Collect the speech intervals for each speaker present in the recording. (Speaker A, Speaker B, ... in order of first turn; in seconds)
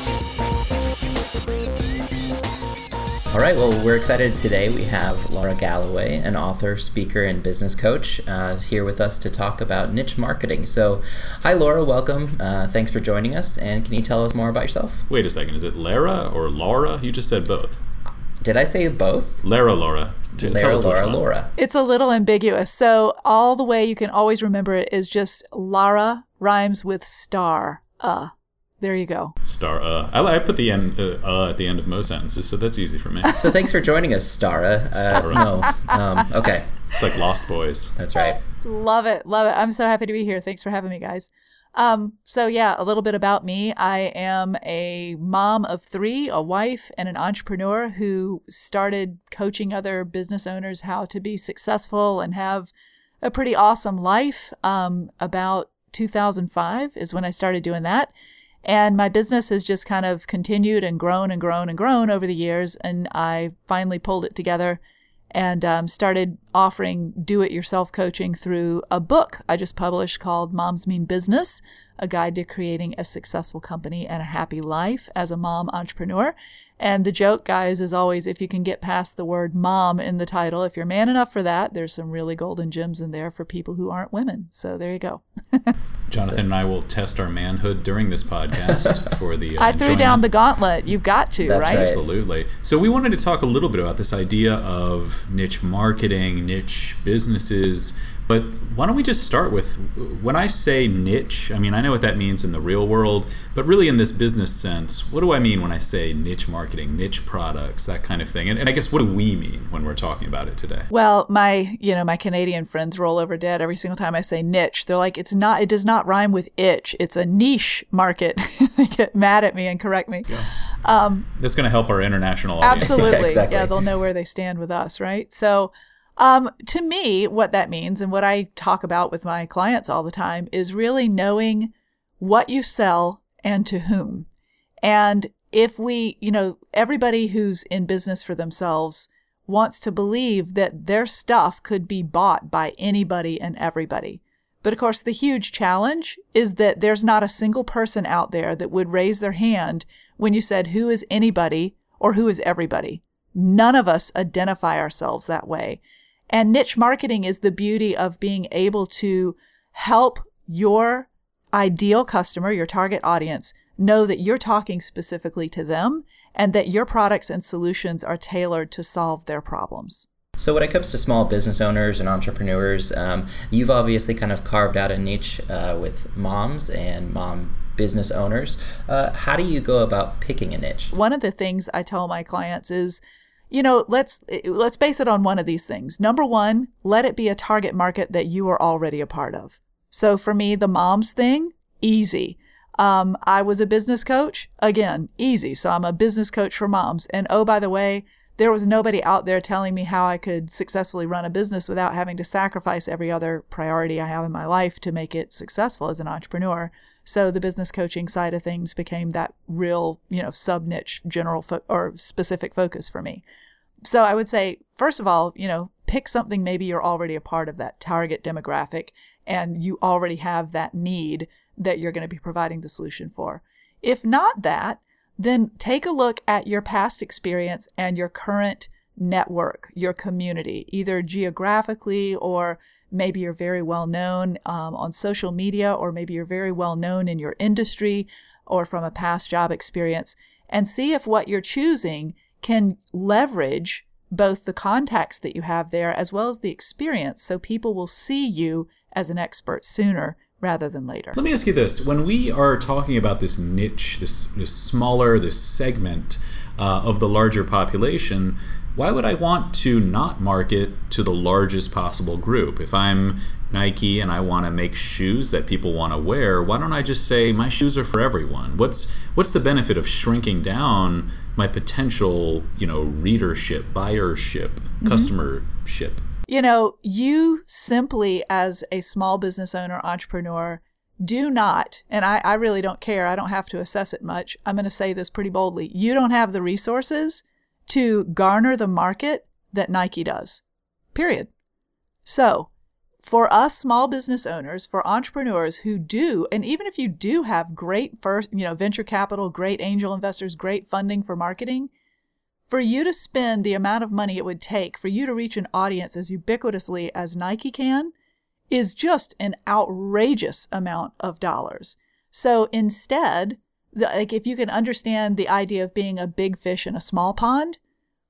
Speaker A: 3.3-15.0, 18.4-19.4, 20.4-21.5, 33.3-36.7, 38.0-38.4, 91.4-92.0, 122.8-123.8, 170.4-180.9
Speaker B: 15.1-17.8, 19.4-21.2, 29.4-33.5, 34.9-35.5, 36.9-38.0, 86.1-90.2, 91.6-110.9, 121.4-123.3, 251.2-276.0
Speaker C: 21.6-29.3, 38.1-52.7, 53.2-58.1, 58.6-64.8, 65.3-85.7, 89.6-91.9, 110.9-120.3, 120.8-121.3, 122.6-134.3, 134.8-170.1, 180.9-183.0, 183.5-213.2, 213.8-251.2, 274.8-275.1, 276.3-290.4, 290.9-291.3, 292.1-292.5, 293.0-301.7, 302.5-307.9, 308.5-317.6